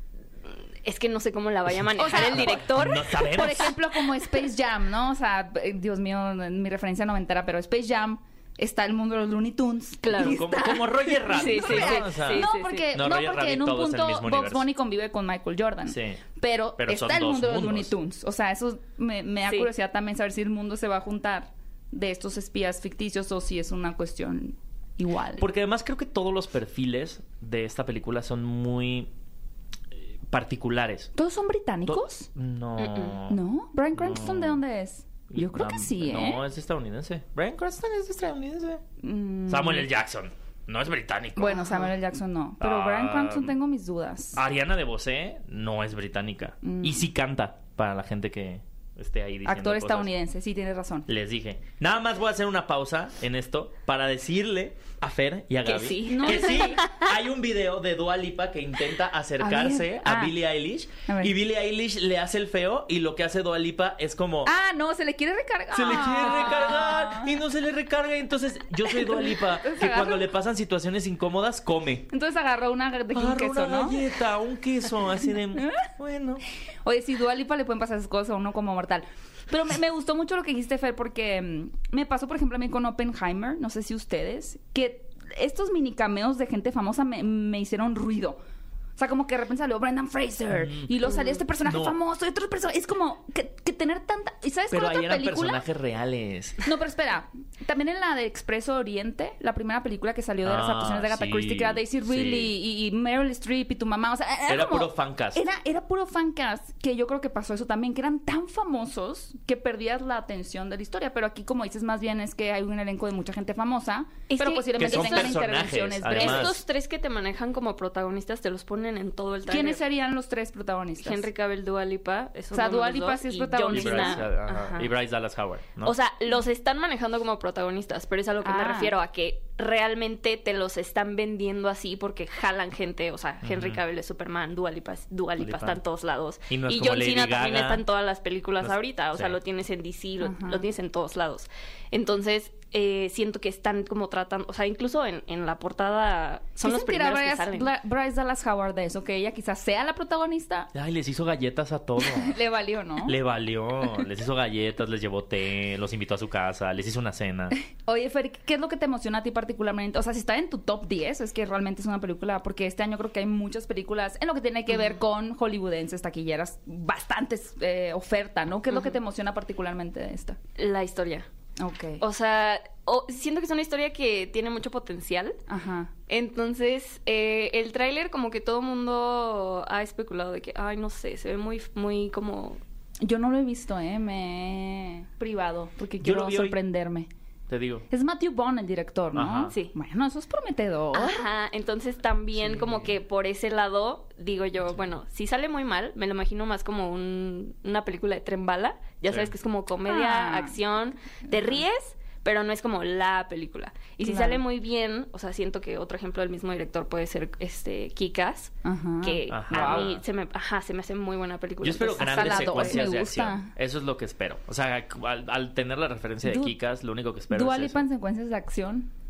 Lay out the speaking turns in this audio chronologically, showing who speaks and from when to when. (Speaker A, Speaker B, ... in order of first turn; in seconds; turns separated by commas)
Speaker A: 0.8-3.6, Speaker B: 2.0-25.4, Speaker C: 2.1-3.7, Speaker A: 10.0-12.9, Speaker C: 10.2-14.7, Speaker C: 15.9-16.2, Speaker C: 16.8-17.9, Speaker C: 25.4-29.1, Speaker C: 30.3-31.1, Speaker B: 31.1-32.3, Speaker C: 31.9-33.4, Speaker A: 32.8-33.1, Speaker B: 33.3-36.4, Speaker C: 33.9-34.6, Speaker C: 35.3-38.8, Speaker B: 39.0-39.9, Speaker C: 39.5-41.9, Speaker B: 41.4-44.4, Speaker C: 42.6-43.5, Speaker C: 44.3-50.1, Speaker B: 46.6-47.1, Speaker B: 49.4-51.1, Speaker C: 51.1-64.5, Speaker A: 55.6-57.1, Speaker B: 56.1-56.8, Speaker B: 59.4-60.4, Speaker B: 61.1-61.3, Speaker B: 64.4-67.4, Speaker C: 65.7-72.1, Speaker B: 68.8-70.3, Speaker B: 72.1-74.1, Speaker C: 73.1-76.4, Speaker B: 75.6-75.9, Speaker B: 76.8-88.4, Speaker B: 89.0-95.7, Speaker C: 90.5-90.9, Speaker A: 91.1-91.4, Speaker C: 91.6-92.0, Speaker C: 94.7-96.7, Speaker B: 96.7-116.5, Speaker C: 100.4-102.5, Speaker C: 104.5-105.4, Speaker A: 114.3-115.4, Speaker C: 114.8-116.6, Speaker A: 116.2-119.8, Speaker B: 119.5-121.3, Speaker A: 121.0-124.9, Speaker B: 122.5-124.2, Speaker C: 123.7-125.9, Speaker A: 125.8-147.7, Speaker B: 128.4-128.9, Speaker C: 133.4-133.8, Speaker C: 135.4-135.8, Speaker C: 136.5-137.8, Speaker C: 138.6-139.3, Speaker B: 140.2-140.6, Speaker B: 146.6-150.7, Speaker C: 150.7-152.4, Speaker B: 152.0-153.2, Speaker C: 153.1-157.5, Speaker B: 157.8-170.4, Speaker A: 168.7-168.9, Speaker A: 170.6-171.3, Speaker B: 171.6-172.0, Speaker A: 172.0-175.4, Speaker B: 175.5-175.9, Speaker A: 176.1-182.6, Speaker B: 183.0-187.1, Speaker C: 186.0-186.6, Speaker C: 187.5-187.8, Speaker B: 187.9-191.2, Speaker C: 189.1-189.5, Speaker A: 190.9-212.9, Speaker C: 192.4-192.9, Speaker B: 199.9-200.6, Speaker B: 204.0-204.4, Speaker B: 208.7-209.9, Speaker C: 209.3-210.0, Speaker C: 211.6-217.8, Speaker B: 212.0-213.5, Speaker B: 216.2-216.6, Speaker B: 217.3-218.9